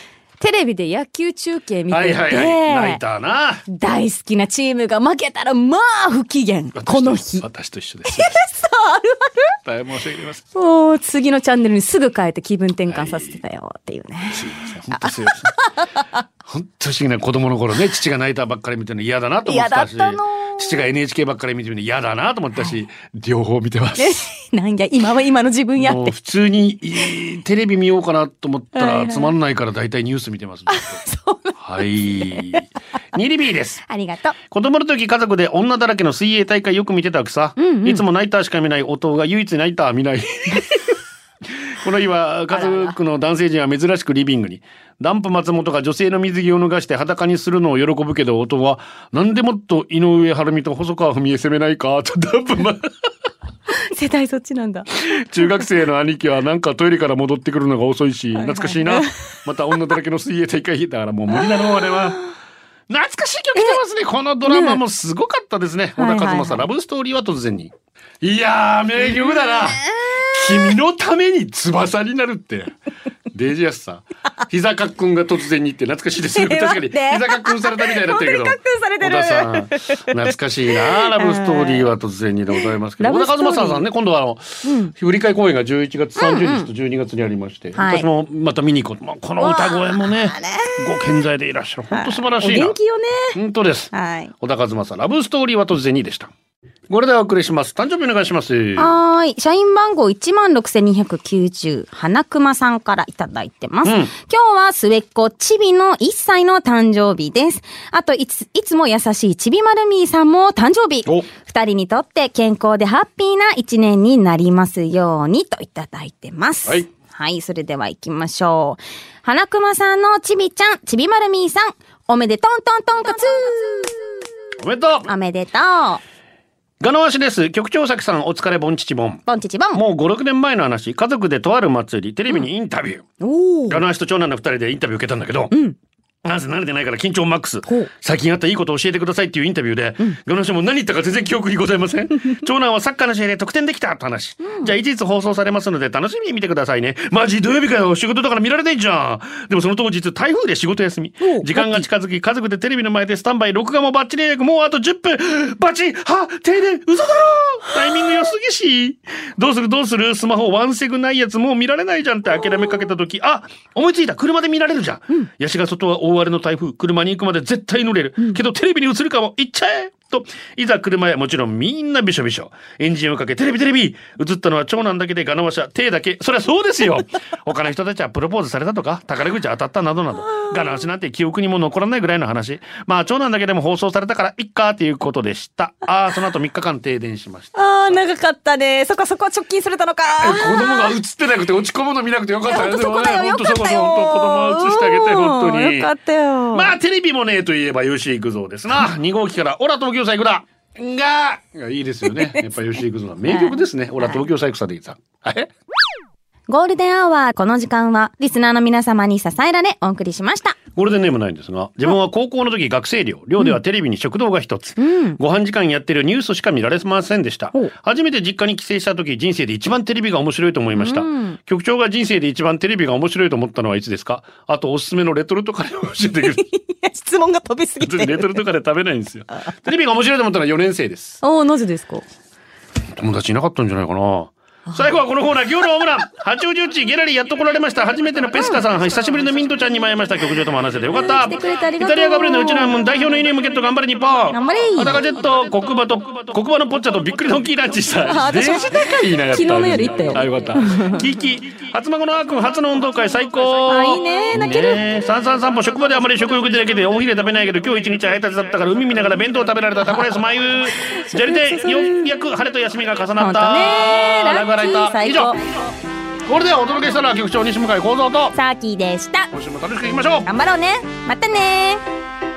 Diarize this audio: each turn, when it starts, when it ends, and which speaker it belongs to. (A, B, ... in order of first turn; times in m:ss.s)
0:00.4-0:03.0 A
0:01.9-0:03.6 B
0:03.7-0:07.5 A
0:06.7-0:08.4 B
0:08.1-0:09.5 A
0:09.6-0:10.4 B
0:10.5-0:16.2 A
0:12.9-0:13.4 B
0:14.3-0:15.5 B
0:16.5-0:24.2 B
0:19.4-0:20.8 A
0:24.0-0:26.2 A
0:25.8-0:31.0 B
0:28.8-0:29.3 A
0:30.7-0:32.6 A
0:31.6-0:33.8 B
0:33.9-0:34.4 A
0:34.5-0:40.7 B
0:37.6-0:38.0 A
0:41.8-0:52.9 B
0:42.5-0:43.0 A
0:53.8-0:54.9 A
0:55.0-1:02.2 B
0:58.4-0:59.1 A
1:01.6-1:02.0 A
1:02.9-1:12.8 B
1:04.5-1:04.8 A
1:06.0-1:06.7 A
1:09.0-1:10.8 A
1:13.3-1:32.8 B
1:16.3-1:21.9 A
1:23.0-1:23.9 A
1:24.6-1:24.9 A
1:26.2-1:26.7 A
1:27.8-1:28.1 A
1:29.4-1:30.8 A
1:31.9-1:33.4 A
1:33.3-1:36.3 B
1:33.9-1:34.3 A
1:36.9-1:39.0 B
1:38.8-2:04.2 A
1:43.8-1:44.1 B
2:04.6-2:05.1 B
2:05.1-2:06.0 A
2:06.8-2:13.1 B
2:09.3-2:09.8 A
2:13.2-2:13.8 A
2:13.7-2:15.6 B
2:16.2-3:08.0 B
2:24.4-2:24.7 A
2:31.2-2:31.9 A
3:07.6-3:11.0 A
3:10.2-3:15.9 B
3:12.5-3:16.7 A
3:16.5-3:25.5 B
3:22.2-3:22.4 A
3:23.3-3:24.2 A
3:26.5-3:30.6 A
3:30.8-3:46.5 B
3:34.8-3:35.2 A
3:40.7-3:41.4 A
3:46.4-3:48.4 A
3:47.8-3:51.2 B
3:51.2-3:52.0 A
3:52.9-4:25.6 B
3:54.7-3:54.9 A
4:01.0-4:02.8 A
4:04.3-4:05.0 A
4:08.1-4:11.0 A
4:13.7-4:14.8 A
4:20.9-4:22.0 A
4:23.2-4:25.4 A
4:26.2-4:28.4 B
4:28.4-4:29.3 A
4:29.3-4:30.3 B
4:30.3-4:31.8 A